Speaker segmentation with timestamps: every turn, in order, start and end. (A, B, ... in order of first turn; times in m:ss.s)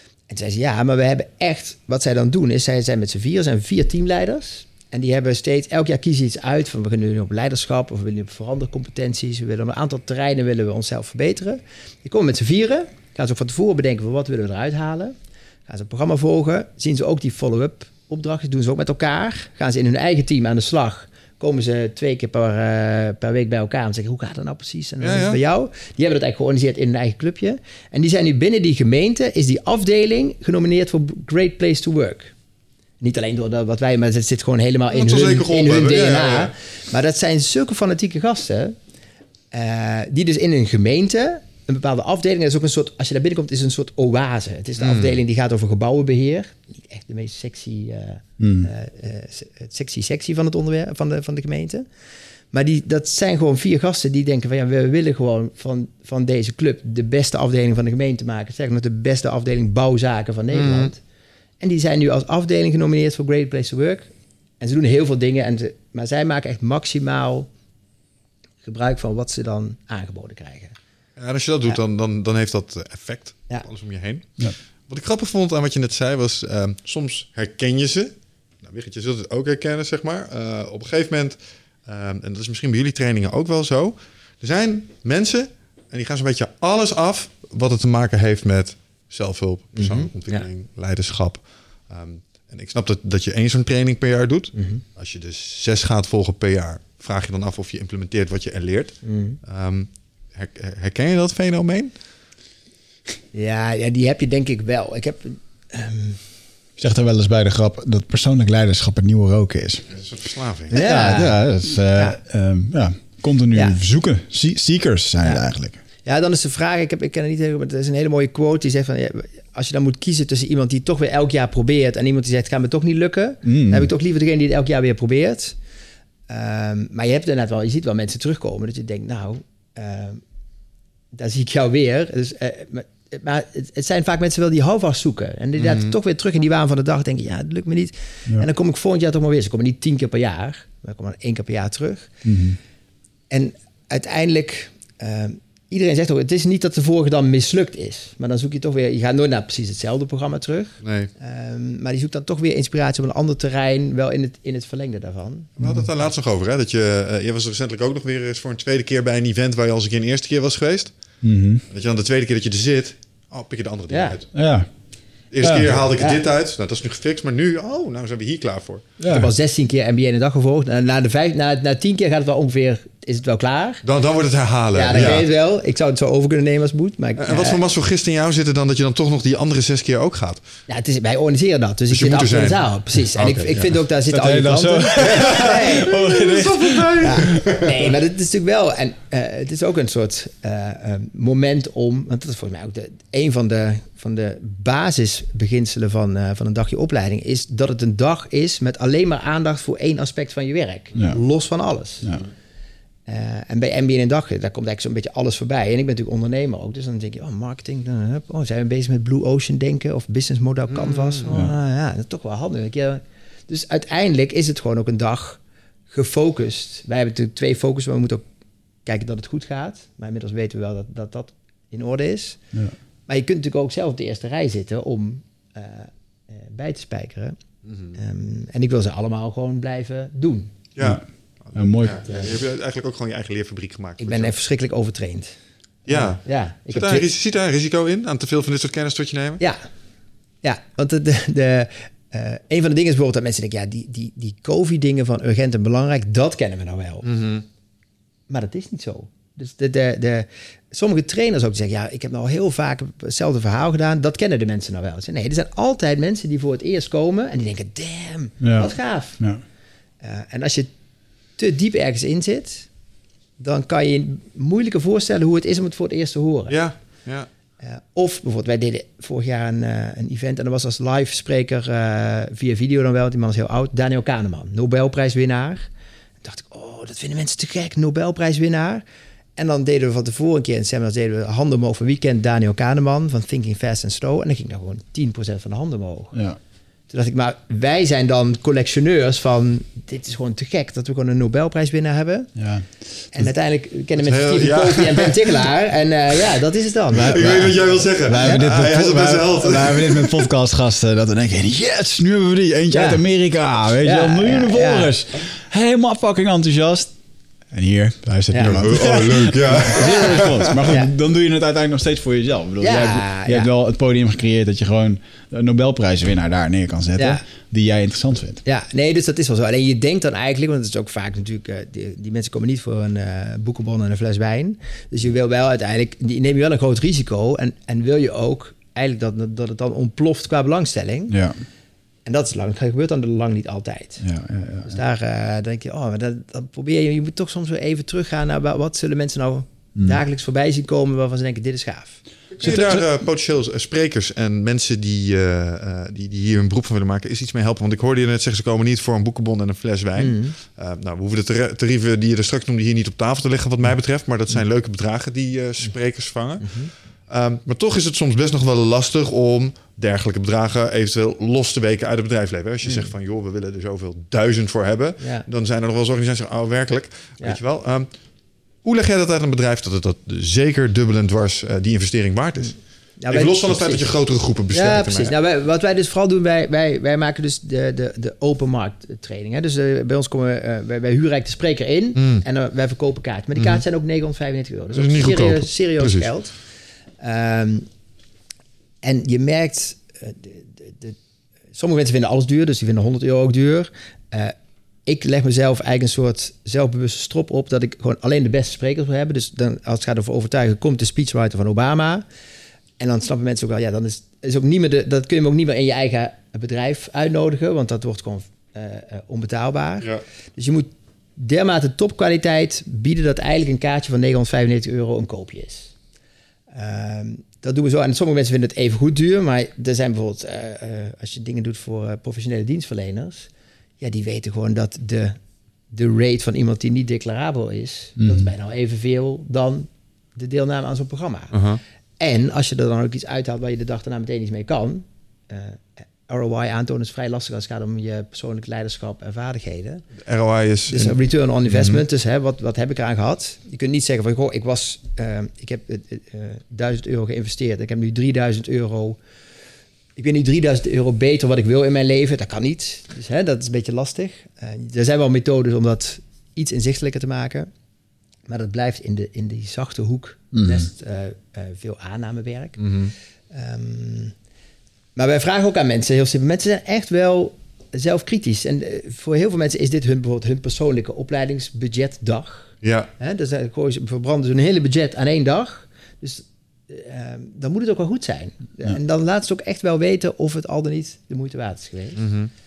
0:00.3-0:15.2 A
0:15.7-0:32.3 A
0:25.0-0:25.4 B
0:33.0-0:38.8 A
0:34.9-0:36.5 B
0:39.5-0:51.9 A
0:44.8-0:45.2 B
0:48.4-0:48.7 C
0:52.5-1:01.0 A
1:00.5-1:00.9 B
1:01.6-1:07.5 A
1:08.6-1:10.8 A
1:11.2-1:41.9 B
1:29.8-1:30.5 A
1:34.6-1:34.8 A
1:39.0-1:39.4 A
1:43.3-1:46.2 A
1:46.8-1:49.8 C
1:49.9-1:50.8 B
1:50.7-1:51.4 A
1:50.7-1:55.8 C
1:56.0-2:05.6 A
2:03.4-2:03.9 C
2:06.3-2:10.2 A
2:11.1-2:22.2 A
2:15.6-2:15.9 B
2:22.2-2:22.6 C
2:23.3-2:35.6 A
2:30.8-2:31.1 B
2:35.6-2:35.9 C
2:35.6-2:40.9 B
2:41.2-2:41.6 C
2:41.7-2:44.3 B
2:43.9-2:44.2 A
2:44.3-2:44.7 C
2:45.3-2:48.9 B
2:45.4-2:45.8 C
2:46.0-2:46.2 A
2:49.0-2:53.8 A
2:49.0-2:49.3 C
2:53.8-2:55.3 B
2:54.7-2:57.6 A
2:57.2-3:00.4 B
3:00.7-3:05.9 A
3:01.9-3:02.6 B
3:03.2-3:03.8 B
3:04.1-3:07.4 C
3:05.0-3:07.8 B
3:07.0-3:22.1 A
3:21.0-3:21.2 C
3:23.1-3:38.2 A
3:30.7-3:31.3 B
3:38.9-3:42.4 A
3:43.1-3:47.4 A
3:47.7-3:48.0 B
3:48.0-3:50.5 A
3:50.8-3:54.3 B
3:51.5-3:52.1 C
3:54.0-3:55.3 A
3:55.9-3:59.4 B
3:55.9-3:57.1 A
4:00.4-4:07.1 A
4:07.0-4:07.4 B
4:08.3-4:19.2 A
4:18.4-4:19.4 C
4:20.0-4:20.7 A
4:21.4-4:22.7 A
4:23.4-4:26.6 A
4:26.5-4:27.3 B
4:27.6-4:35.7 A
4:36.2-4:38.8 A
4:39.4-4:46.2 A
4:46.1-4:46.4 C
4:46.9-4:52.3 A
4:52.4-4:52.7 C
4:53.1-4:58.4 A
4:54.0-4:55.4 B
4:56.9-5:00.3 B
4:58.0-5:06.9 C
5:02.7-5:03.0 A
5:03.8-5:04.9 A
5:07.5-5:18.4 C
5:08.3-5:08.6 A
5:08.4-5:10.6 B
5:09.8-5:10.9 A
5:12.6-5:13.5 A
5:17.0-5:17.2 A
5:18.4-5:31.2 A
5:31.1-5:31.4 C
5:32.0-5:34.0 A
5:34.0-5:34.8 C
5:34.6-5:42.0 A
5:42.4-5:56.5 B
5:42.4-5:42.9 C
5:50.0-5:50.4 A
5:56.4-5:56.7 A
5:57.1-6:07.9 B
6:05.0-6:05.3 A
6:08.6-6:12.6 B
6:13.0-6:13.9 A
6:13.1-6:15.1 B
6:14.5-6:26.3 A
6:22.0-6:22.2 B
6:23.4-6:23.6 B
6:24.8-6:26.1 B
6:27.0-6:27.7 A
6:28.8-6:31.0 A
6:31.5-6:34.3 A
6:34.9-6:42.0 A
6:42.8-6:55.7 A
6:56.5-7:03.3 A
7:03.8-7:05.2 A
7:05.7-7:11.4 A
7:08.0-7:08.3 C
7:11.3-7:11.6 B
7:12.0-7:19.8 A
7:20.0-7:21.0 B
7:20.7-7:29.0 A
7:21.5-7:21.8 B
7:30.0-7:37.5 A
7:38.3-7:42.6 A
7:40.3-7:40.7 C
7:42.6-7:42.9 B
7:43.3-7:44.1 A
7:45.0-8:02.0 A
7:52.6-7:52.9 B
8:02.0-8:02.3 B